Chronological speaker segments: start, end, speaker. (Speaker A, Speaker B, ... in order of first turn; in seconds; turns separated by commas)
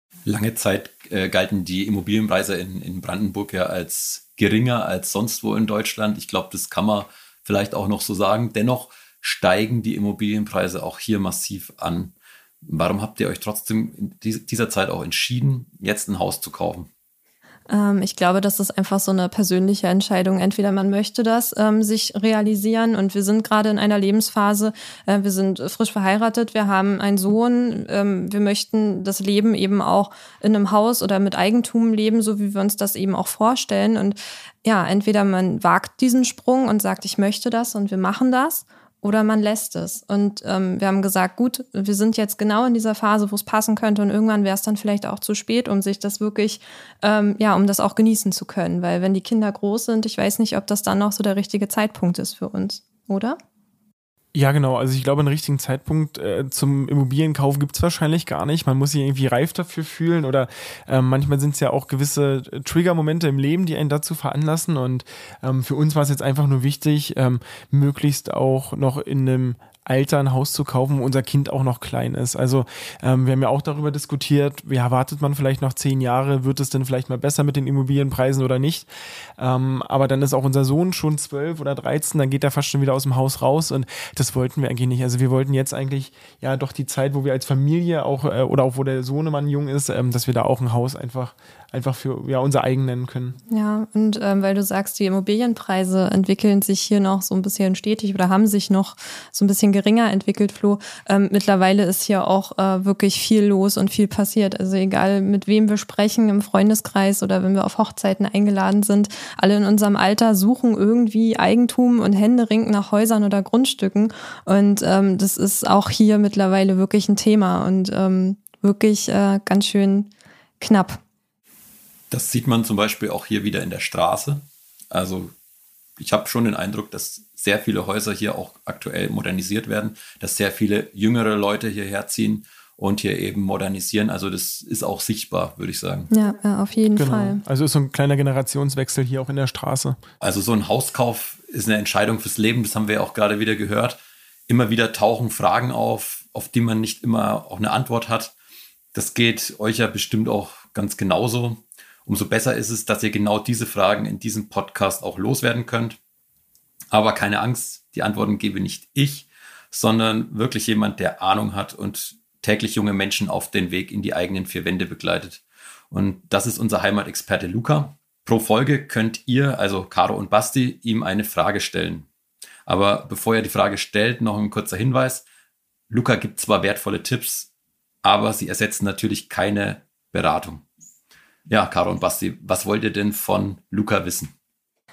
Speaker A: 0.2-16.9, Speaker B: 17.7-53.4, Speaker C: 54.3-93.4, Speaker B: 93.5-121.0, Speaker A: 122.1-125.3, Speaker A: 126.0-136.1, Speaker B: 136.1-137.4, Speaker C: 136.9-140.0, Speaker A: 140.2-148.3, Speaker A: 148.9-156.0, Speaker A: 156.9-172.1, Speaker A: 172.7-175.2, Speaker A: 175.9-177.5, Speaker A: 178.0-180.6, Speaker A: 181.5-184.3